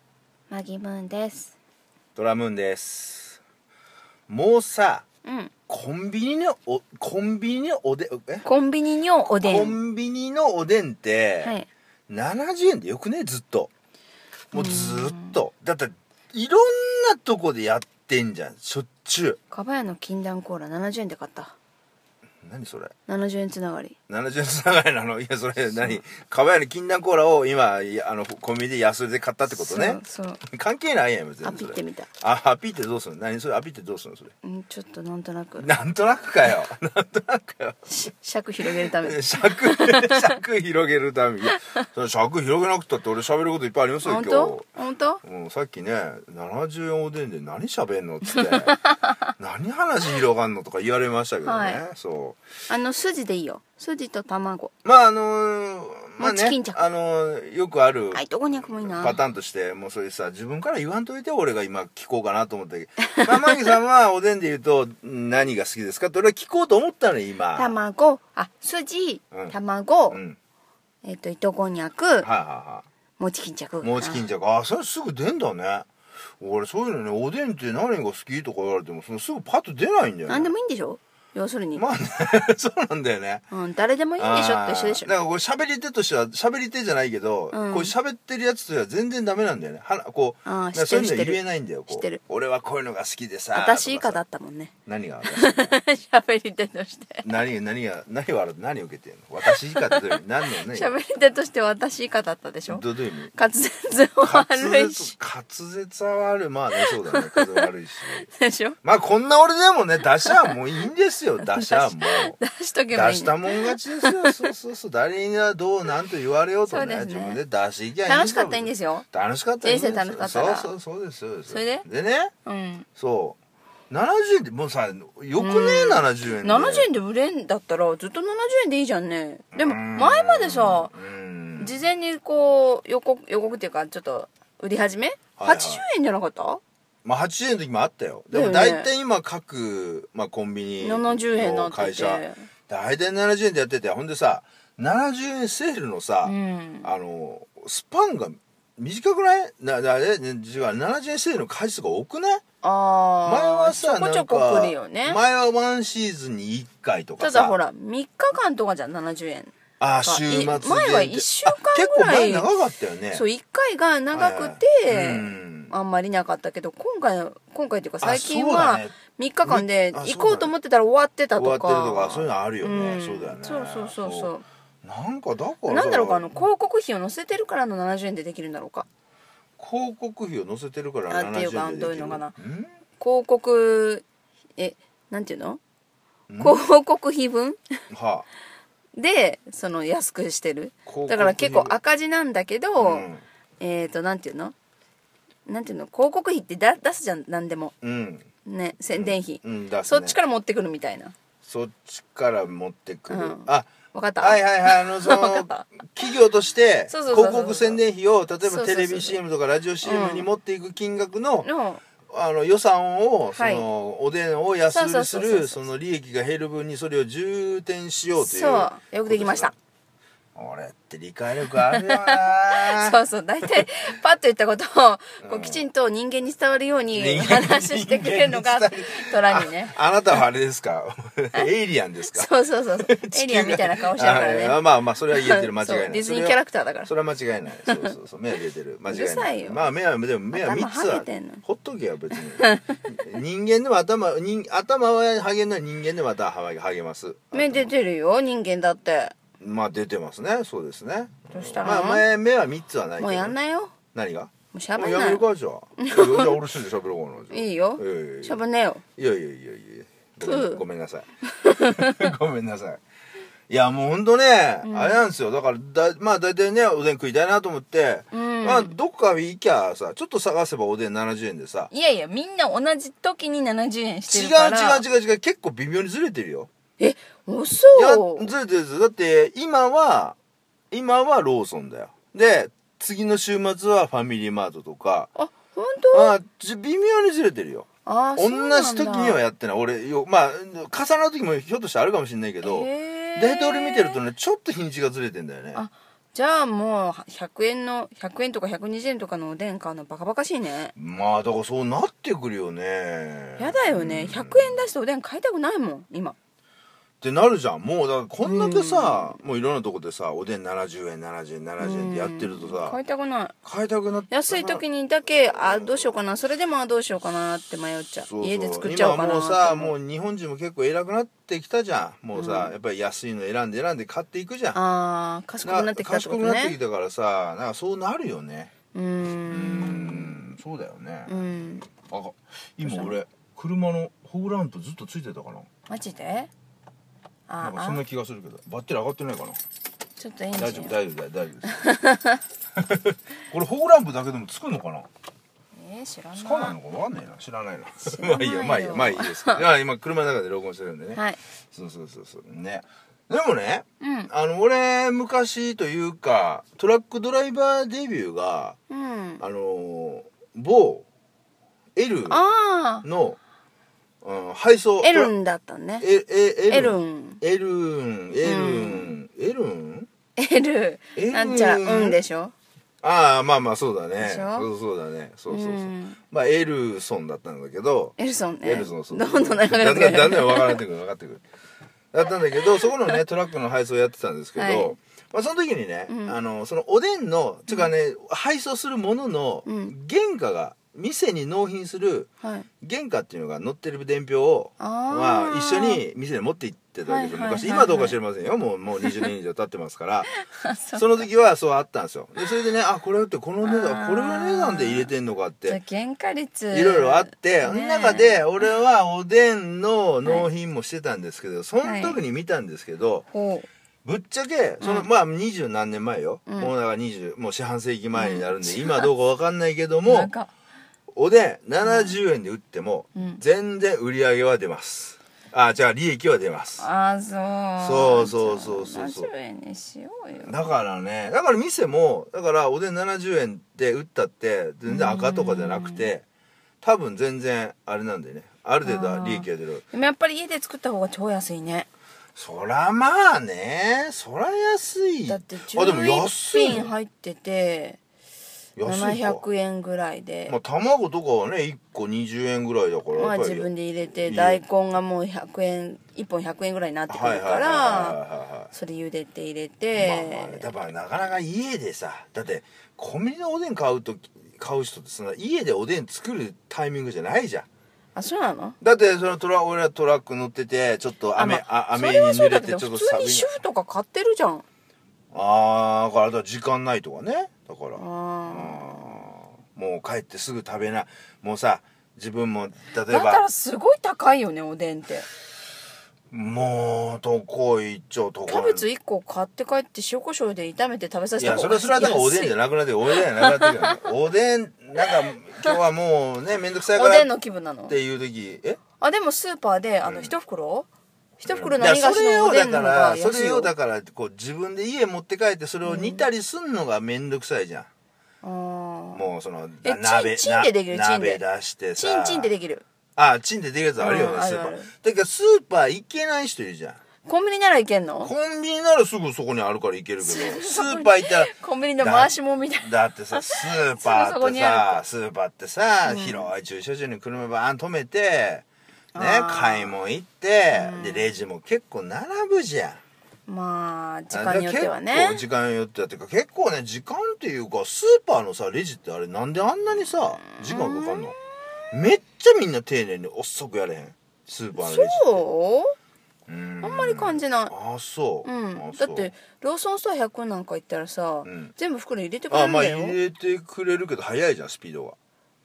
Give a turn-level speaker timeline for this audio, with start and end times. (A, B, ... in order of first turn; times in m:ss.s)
0:00.5-0:01.5 A
0:02.2-0:03.4 B
0:04.3-0:05.0 B
0:05.2-0:05.5 A
0:05.7-0:08.4 B
0:08.4-0:09.8 A
0:09.4-0:11.5 B
0:11.4-0:11.7 A
0:12.1-0:13.7 B
0:14.5-0:19.4 B
0:14.5-0:15.4 A
0:19.5-0:21.5 A
0:22.4-0:22.9 B
0:23.1-0:24.0 A
0:24.1-0:34.3 B
0:29.5-0:30.4 A
0:31.4-0:32.1 A
0:34.4-0:35.7 A
0:35.6-0:37.8 B
0:37.9-0:40.4 A
0:38.6-0:44.6 B
0:41.5-0:41.8 A
0:44.0-0:45.2 A
0:45.2-0:48.8 B
0:48.3-0:49.1 A
0:49.4-0:52.4 B
0:51.4-0:51.8 A
0:52.7-0:54.7 A
0:54.8-1:07.8 B
0:56.2-0:56.8 A
0:58.1-0:59.2 A
1:03.1-1:03.5 A
1:07.5-1:10.2 A
1:09.3-1:09.6 B
1:10.1-1:10.4 B
1:11.0-1:12.3 A
1:12.2-1:12.8 B
1:13.2-1:14.2 A
1:13.8-1:15.9 B
1:16.4-1:20.5 B
1:20.3-1:21.8 A
1:21.8-1:23.4 B
1:23.5-1:25.1 A
1:24.2-1:34.2 B
1:27.5-1:27.9 A
1:30.4-1:32.2 A
1:33.5-1:34.7 A
1:34.8-1:35.7 B
1:35.2-1:37.2 A
1:37.2-1:41.0 B
1:39.4-1:45.1 A
1:42.7-1:43.3 B
1:44.2-1:48.3 B
1:46.7-1:48.8 A
1:48.8-1:52.4 B
1:50.2-1:50.5 A
1:51.4-1:54.5 A
1:52.9-2:02.3 B
1:56.7-1:57.4 A
1:58.0-1:59.0 A
1:59.6-2:00.7 A
2:01.5-2:01.8 A
2:02.4-2:02.8 A
2:03.0-2:03.4 B
2:03.9-2:06.9 B
2:05.4-2:10.9 A
2:09.5-2:11.8 B
2:11.6-2:16.6 A
2:15.4-2:15.8 B
2:17.0-2:32.4 B
2:18.3-2:18.9 A
2:20.8-2:22.4 A
2:26.2-2:26.9 A
2:32.6-2:35.2 A
2:33.2-2:37.6 B
2:37.2-2:42.5 A
2:39.8-2:43.2 B
2:43.1-2:54.4 A
2:44.1-2:45.7 B
2:48.0-2:50.5 B
2:51.4-2:54.3 B
2:54.8-2:56.4 B
2:55.7-2:58.8 A
2:59.6-3:02.7 B
3:01.1-3:02.3 A
3:03.0-3:04.0 A
3:04.6-3:05.6 A
3:06.3-3:06.6 B
3:06.4-3:07.6 A
3:07.9-3:08.2 B
3:08.9-3:13.1 A
3:10.8-3:11.8 B
3:12.8-3:13.2 B
3:13.6-3:14.5 A
3:15.4-3:17.7 A
3:17.8-3:18.3 B
3:18.4-3:21.1 A
3:18.9-3:20.2 B
3:21.4-3:31.5 B
3:23.1-3:25.8 A
3:26.9-3:27.8 A
3:28.4-3:29.2 A
3:29.8-3:30.3 A
3:31.4-3:31.8 A
3:32.1-3:39.5 B
3:33.3-3:33.7 A
3:34.7-3:35.6 A
3:38.2-3:39.5 A
3:40.3-3:43.0 B
3:41.6-3:49.8 A
3:45.2-3:45.6 B
3:46.9-4:07.7 B
3:52.1-3:54.6 A
3:55.1-3:56.9 A
3:57.6-3:57.9 A
3:58.9-3:59.7 A
4:00.3-4:01.4 A
4:02.3-4:02.8 A
4:07.3-4:09.1 A
4:09.4-4:13.4 B
4:11.3-4:12.0 A
4:13.0-4:13.7 A
4:13.9-4:18.4 B
4:14.5-4:15.2 A
4:15.8-4:16.4 A
4:17.3-4:18.8 A
4:19.0-4:21.1 B
4:20.2-4:20.6 A
4:21.2-4:22.1 A
4:21.7-4:22.8 B
4:23.5-4:31.7 B
4:24.6-4:25.0 A
4:28.1-4:28.8 A
4:31.7-4:34.8 A
4:34.0-4:36.5 B
4:36.8-4:38.3 A
4:37.7-4:40.2 B
4:40.7-4:45.1 B
4:45.1-4:46.2 A
4:45.9-4:55.6 B
4:47.8-4:49.2 A
4:52.4-4:54.0 A
4:55.5-5:00.7 A
5:00.8-5:04.6 B
5:03.4-5:06.2 A
5:07.0-5:12.8 B
5:08.2-5:09.2 A
5:11.6-5:13.3 A
5:13.4-5:14.6 B
5:14.1-5:19.7 A
5:15.2-5:15.9 B
5:18.0-5:24.6 B
5:22.1-5:22.5 A
5:24.5-5:26.6 A
5:25.4-5:28.5 B
5:28.7-5:30.2 A
5:29.3-5:31.2 B
5:31.1-5:31.7 A
5:31.9-5:35.5 B
5:32.6-5:33.0 A
5:35.7-5:36.3 A
5:37.3-5:37.8 A
5:37.4-5:39.4 B
5:40.0-5:40.8 A
5:40.3-5:41.6 B
5:41.5-5:42.2 A
5:42.6-5:44.9 B
5:45.5-5:46.6 A
5:46.1-5:58.6 B
5:47.8-5:49.4 A
5:53.8-5:54.1 A
5:58.7-5:59.2 A
5:59.2-6:00.8 B
6:01.8-6:02.2 B
6:02.1-6:02.8 A
6:02.8-6:03.2 B
6:04.0-6:05.1 B
6:04.8-6:05.9 A
6:05.8-6:09.9 B
6:06.5-6:07.2 A
6:08.2-6:08.9 A
6:10.2-6:12.3 A
6:10.9-6:12.0 B
6:12.8-6:21.2 B
6:14.0-6:14.5 A
6:15.3-6:16.0 A
6:18.0-6:20.6 A
6:21.9-6:32.1 B
6:24.4-6:24.8 A
6:25.9-6:26.2 A
6:29.4-6:29.7 A
6:32.2-6:32.5 A
6:32.6-6:40.1 B
6:34.6-6:35.8 A
6:36.8-6:38.0 A
6:40.2-6:41.0 A
6:40.7-6:45.6 B
6:43.4-6:44.9 A
6:45.4-6:48.2 A
6:46.5-6:53.0 B
6:51.6-6:52.0 A
6:53.1-6:53.5 A
6:53.8-7:00.1 B
6:54.6-6:54.9 A
6:56.3-6:56.5 A
6:57.9-6:58.9 A
6:59.8-7:00.3 A
7:00.9-7:06.6 B
7:01.6-7:01.9 A
7:02.9-7:03.2 A
7:06.6-7:10.5 A
7:07.6-7:09.1 B
7:10.2-7:16.0 B
7:14.6-7:15.9 A
7:16.6-7:19.6 B
7:18.6-7:21.7 A
7:22.1-7:26.7 B
7:25.0-7:27.8 A
7:28.6-7:29.2 B
7:28.6-7:30.3 A
7:30.3-7:34.4 B
7:32.9-7:38.0 A
7:36.9-7:38.5 B
7:38.5-7:40.5 A
7:39.7-7:47.4 B
7:47.9-7:48.6 A
7:48.6-7:53.3 B
7:51.2-7:54.4 A
7:55.1-8:03.2 B
7:57.8-7:59.1 A
8:02.8-8:05.1 A
8:06.1-8:08.6 B
8:08.2-8:12.4 A
8:11.2-8:17.1 B
8:13.2-8:13.9 A
8:16.7-8:17.8 A
8:17.7-8:18.6 B
8:18.8-8:20.7 A
8:19.8-8:20.1 B
8:21.2-8:23.5 A
8:21.3-8:27.7 B
8:25.6-8:26.0 A
8:28.2-8:29.1 A
8:28.9-8:32.3 B
8:29.6-8:31.2 A
8:31.8-8:32.6 A
8:33.0-8:36.8 B
8:33.8-8:34.7 A
8:37.0-8:38.1 A
8:38.0-8:52.8 B
8:40.0-8:44.8 A
8:45.8-8:46.3 A
8:48.9-8:49.7 A
8:50.5-8:51.1 A
8:53.3-8:55.2 A
8:54.1-9:01.2 B
8:59.8-9:01.2 A
9:01.7-9:05.2 B
9:04.5-9:05.7 A
9:06.3-9:09.1 B
9:06.6-9:07.5 A
9:08.2-9:13.0 A
9:11.2-9:11.5 B
9:12.3-9:15.0 B